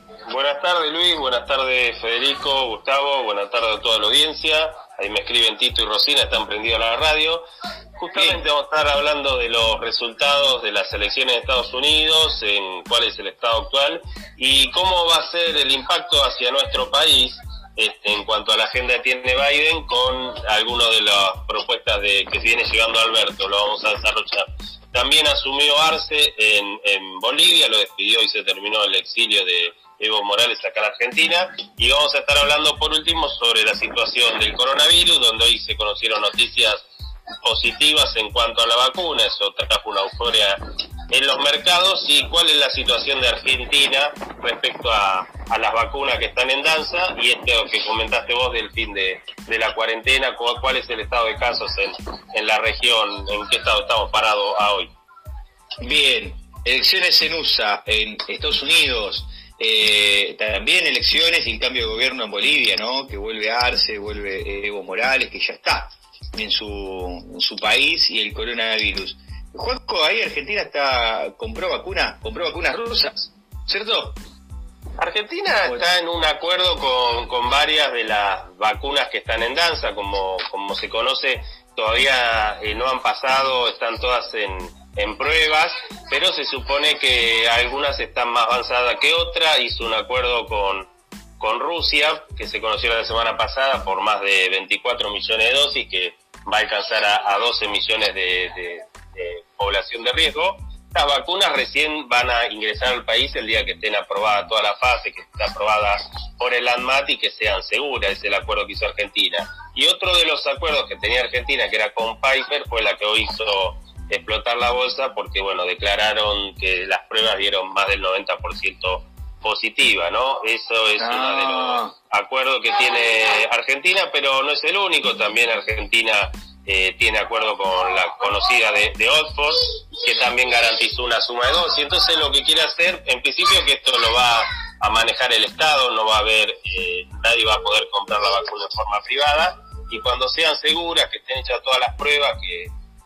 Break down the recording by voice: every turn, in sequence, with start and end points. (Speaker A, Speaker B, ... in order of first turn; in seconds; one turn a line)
Speaker A: 0.3-7.5
Speaker A: 8.0-36.8
Speaker B: 8.1-8.4
Speaker A: 37.4-54.9
Speaker B: 55.8-74.2
Speaker A: 75.0-90.9
Speaker A: 91.4-142.7
Speaker B: 121.0-121.9